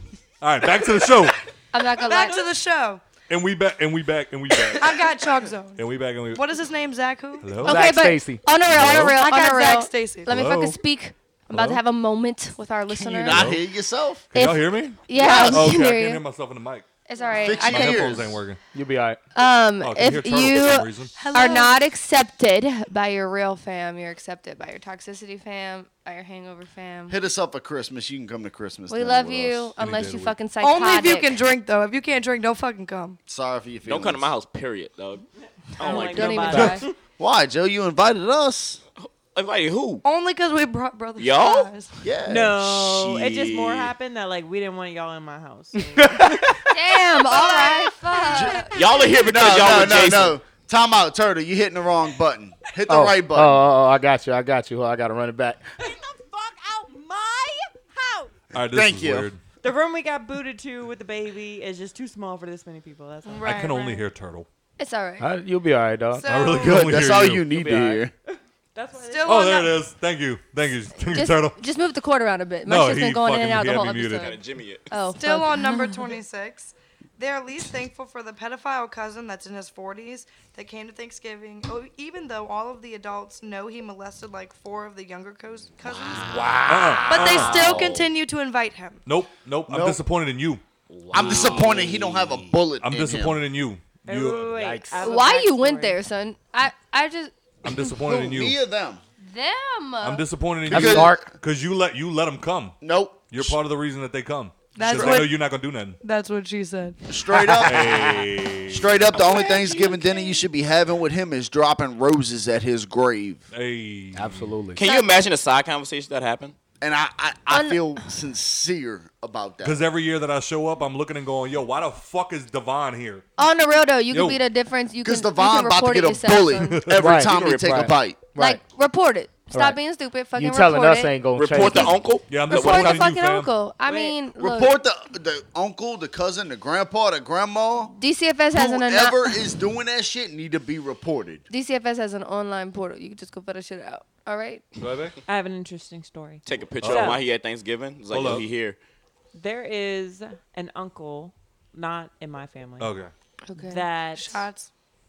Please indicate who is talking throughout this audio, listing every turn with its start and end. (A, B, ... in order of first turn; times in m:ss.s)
0:00.4-0:01.5 A
0:01.7-0:02.5 B
0:02.0-0:03.0 C
0:03.3-0:05.1 A
0:04.8-0:07.6 C
0:05.8-0:06.5 A
0:07.4-0:08.0 A
0:07.6-0:13.5 B
0:07.6-0:08.5 D
0:08.6-0:09.2 A
0:08.8-0:10.3 C
0:10.3-0:10.8 A
0:11.5-0:11.8 A
0:12.9-0:14.3 E
0:13.3-0:13.6 A
0:14.3-0:16.9 A
0:14.3-0:16.2 B
0:15.3-0:15.6 C
0:17.1-0:18.2 B
0:17.4-0:18.4 E
0:17.6-0:18.6 A
0:18.7-0:19.2 D
0:19.4-0:27.2 B
0:19.8-0:21.2 A
0:21.2-0:21.8 C
0:27.1-0:29.7 E
0:28.9-0:31.4 B
0:29.8-0:30.4 A
0:30.6-0:33.2 C
0:33.3-0:34.3 E
0:33.8-0:35.2 F
0:35.8-0:36.9 G
0:35.8-0:36.8 F
0:35.8-0:36.8 B
0:36.5-0:36.8 D
0:37.2-0:38.8 E
0:39.0-0:40.0 F
0:40.0-0:41.9 C
0:41.2-0:41.7 F
0:42.0-0:42.6 E
0:42.3-0:46.6 G
0:42.6-0:43.9 F
0:45.9-0:46.7 D
0:46.7-0:48.8 B
0:47.5-0:48.6 G
0:48.3-0:48.6 E
0:48.7-0:50.4 F
0:49.1-0:53.6 E
0:52.9-0:55.6 D
0:55.8-0:58.3 G
0:58.5-0:59.4 A
0:58.7-0:59.3 E
0:59.6-1:03.6 G
1:03.3-1:04.0 C
1:03.4-1:04.5 A
1:04.8-1:05.3 B
1:05.2-1:06.3 D
1:06.2-1:06.9 C
1:06.2-1:07.5 A
1:06.6-1:08.1 E
1:07.4-1:08.1 D
1:08.3-1:09.6 G
1:09.0-1:09.8 C
1:09.2-1:11.6 A
1:11.0-1:16.1 B
1:12.6-1:14.4 A
1:14.2-1:14.9 F
1:15.2-1:26.5 C
1:26.1-1:27.9 D
1:26.7-1:27.8 A
1:27.0-1:29.0 C
1:27.6-1:28.0 F
1:29.1-1:30.6 A
1:29.7-1:30.0 E
1:31.0-1:32.4 D
1:31.1-1:32.2 F
1:31.1-1:33.4 E
1:32.8-1:34.5 A
1:34.1-1:36.0 G
1:34.2-1:35.2 D
1:35.0-1:37.7 B
1:37.6-1:38.6 A
1:38.0-1:39.0 E
1:39.2-1:40.3 B
1:40.0-1:42.8 A
1:40.7-1:41.3 D
1:40.7-1:41.2 E
1:42.8-1:43.6 E
1:43.3-1:46.0 A
1:44.8-1:45.5 C
1:46.0-1:47.0 C
1:47.1-1:53.5 E
1:47.3-1:48.3 D
1:47.6-1:49.1 A
1:49.3-1:50.2 B
1:53.5-1:54.5 A
1:54.1-1:54.8 D
1:54.7-1:56.6 F
1:54.8-1:55.1 B
1:56.8-1:59.8 E
1:57.5-1:57.8 B
1:59.6-2:03.2 A
2:03.4-2:06.9 B
2:04.1-2:04.4 A
2:05.0-2:08.3 E
2:06.6-2:07.0 A
2:07.0-2:08.6 D
2:07.2-2:07.8 F
2:08.4-2:11.9 B
2:09.5-2:09.8 D
2:10.3-2:12.1 D
2:11.3-2:13.1 F
2:12.3-2:13.5 A
2:12.5-2:14.7 B
2:13.8-2:14.2 G
2:14.4-2:18.0 E
2:18.0-2:19.4 B
2:18.5-2:21.4 E
2:21.5-2:24.8 B
2:24.8-2:25.2 A
2:25.3-2:27.2 G
2:26.5-2:28.8 F
2:26.8-2:27.2 A
2:28.1-2:28.5 A
2:29.3-2:32.9 G
2:32.8-2:33.1 A
2:33.5-2:33.8 B
2:33.6-2:34.5 G
2:34.2-2:34.7 C